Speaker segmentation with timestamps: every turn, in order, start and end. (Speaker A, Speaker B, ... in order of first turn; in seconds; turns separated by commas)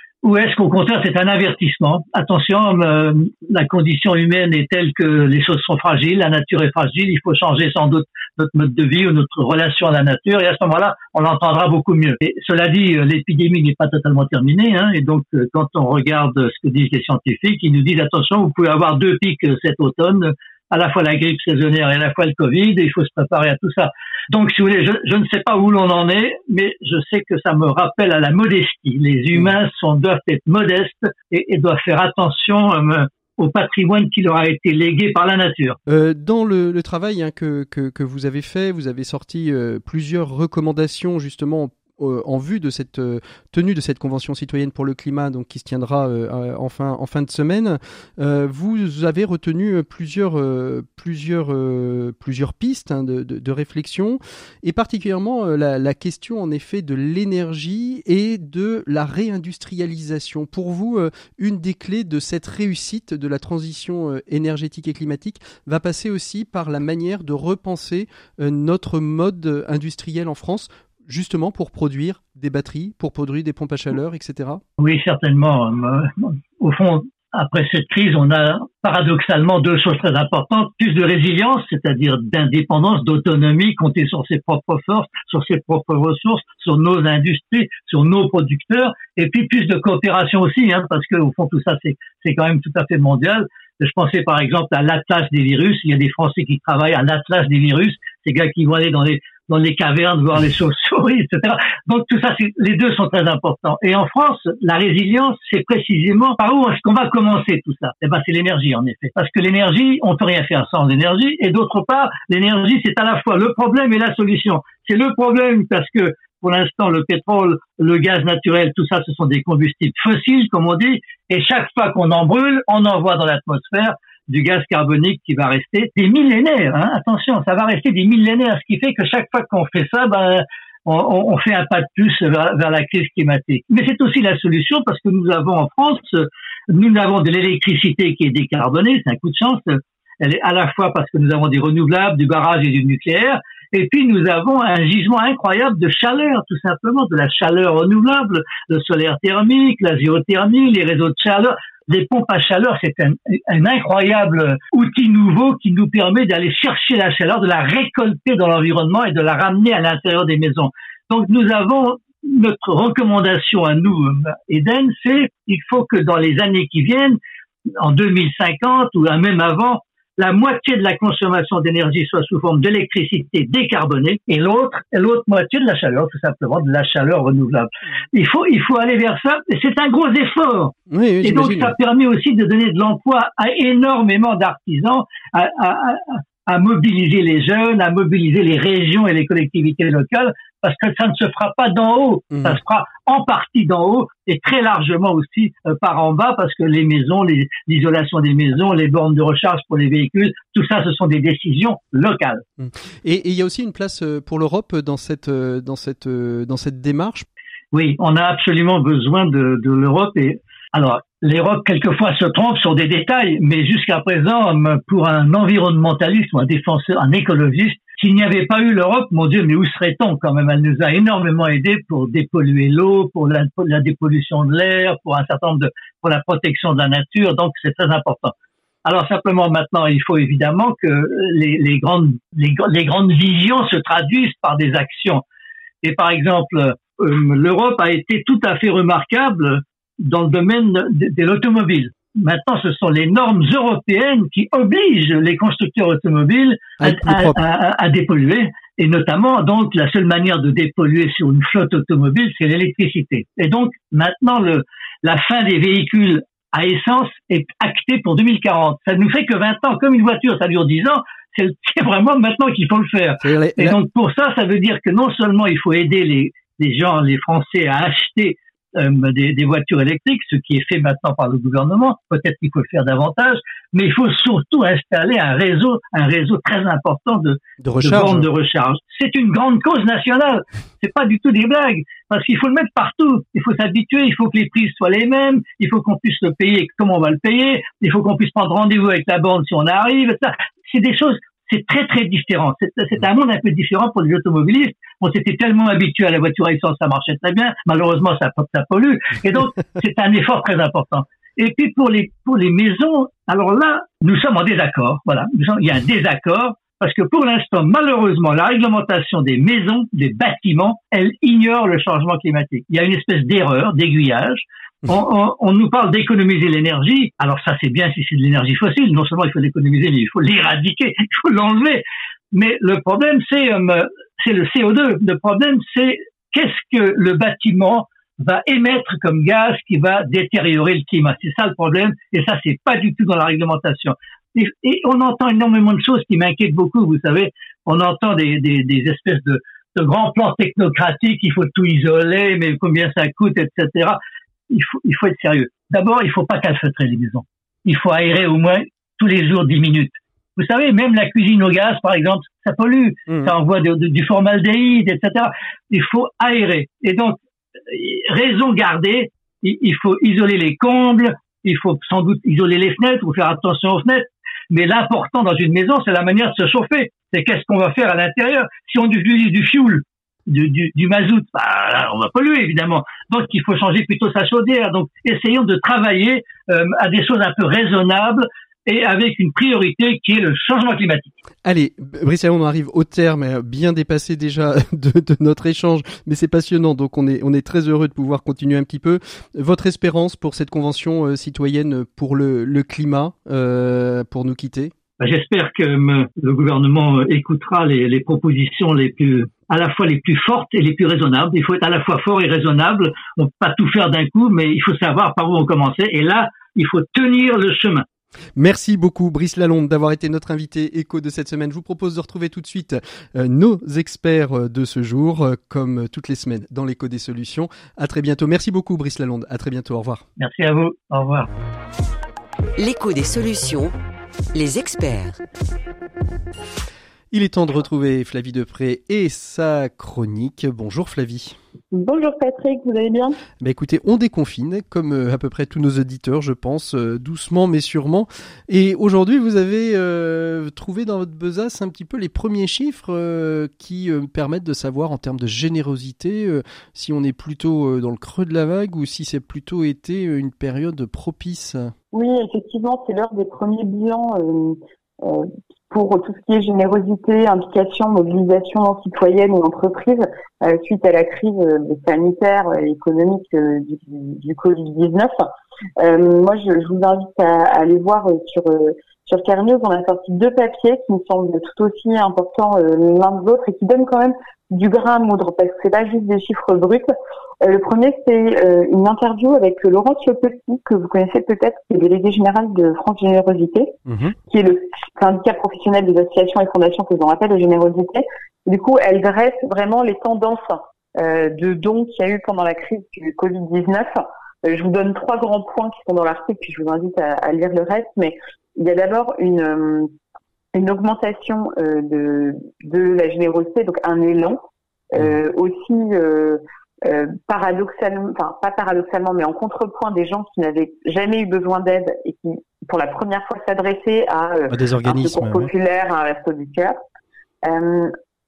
Speaker A: 0.2-35.8, Speaker B: 35.9-74.6, Speaker A: 74.8-167.2, Speaker A: 167.8-202.4, Speaker B: 180.9-181.7, Speaker B: 192.3-192.6, Speaker B: 202.6-207.3, Speaker A: 207.7-228.3, Speaker A: 228.8-235.2, Speaker A: 235.8-344.0, Speaker B: 246.8-247.4, Speaker B: 263.2-263.8, Speaker B: 277.6-278.3, Speaker A: 344.5-381.2, Speaker B: 353.1-353.3, Speaker B: 381.4-394.7, Speaker A: 395.0-407.9, Speaker B: 408.4-420.1, Speaker A: 420.2-421.3, Speaker C: 422.6-423.7, Speaker C: 424.4-425.2, Speaker B: 427.1-431.4, Speaker D: 431.7-433.2, Speaker B: 433.4-451.7, Speaker D: 451.9-465.2, Speaker D: 465.8-476.9, Speaker D: 477.4-483.8, Speaker B: 483.9-484.2, Speaker D: 484.3-499.9, Speaker D: 500.5-504.4, Speaker D: 504.9-516.8, Speaker B: 514.5-515.5, Speaker D: 517.5-517.9